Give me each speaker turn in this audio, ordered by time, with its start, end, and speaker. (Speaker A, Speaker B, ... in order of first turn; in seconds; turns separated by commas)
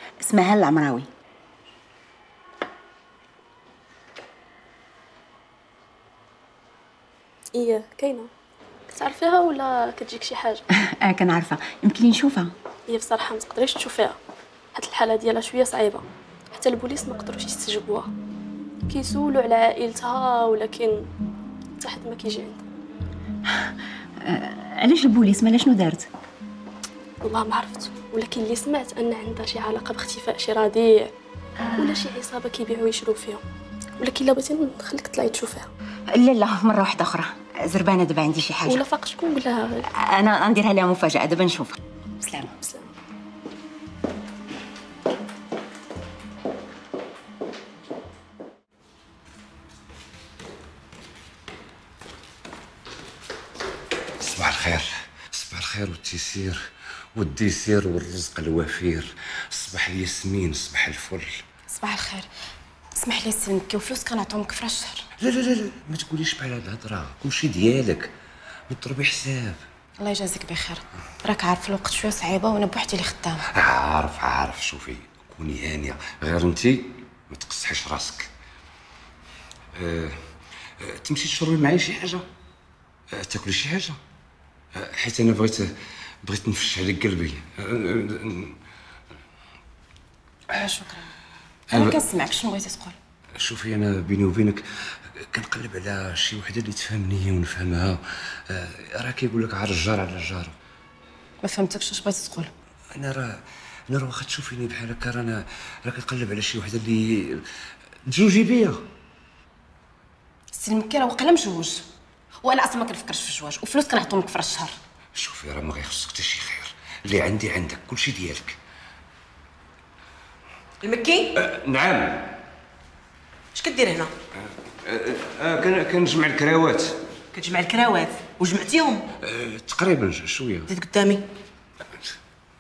Speaker A: 0.2-1.1, Speaker B: 7.5-8.3, Speaker B: 8.9-10.6, Speaker A: 10.7-12.5, Speaker B: 12.9-14.2, Speaker B: 14.8-18.1, Speaker B: 18.9-21.1, Speaker B: 21.8-22.6, Speaker A: 23.5-26.1, Speaker B: 27.2-31.1, Speaker A: 31.6-32.0, Speaker B: 31.7-33.4, Speaker B: 34.0-35.7, Speaker A: 36.1-38.8, Speaker B: 38.6-39.9, Speaker A: 40.0-42.5, Speaker B: 42.6-42.9, Speaker C: 54.2-56.6, Speaker C: 57.1-61.4, Speaker D: 61.7-62.3, Speaker D: 63.0-65.1, Speaker C: 65.2-68.1, Speaker C: 68.7-69.6, Speaker D: 70.0-73.5, Speaker C: 73.5-78.3, Speaker C: 79.7-80.2, Speaker C: 80.8-82.3, Speaker C: 83.1-84.0, Speaker C: 84.8-88.6, Speaker D: 90.5-91.1, Speaker C: 91.7-92.0, Speaker D: 91.7-93.0, Speaker C: 93.4-100.5, Speaker D: 101.4-102.5, Speaker C: 102.9-107.5, Speaker C: 108.1-108.8, Speaker D: 110.5-111.9, Speaker D: 112.4-114.7, Speaker C: 115.2-118.6, Speaker E: 120.8-121.3, Speaker C: 121.3-122.4, Speaker E: 123.5-124.2, Speaker C: 124.8-127.0, Speaker E: 127.3-129.1, Speaker C: 129.2-130.7, Speaker E: 130.7-131.3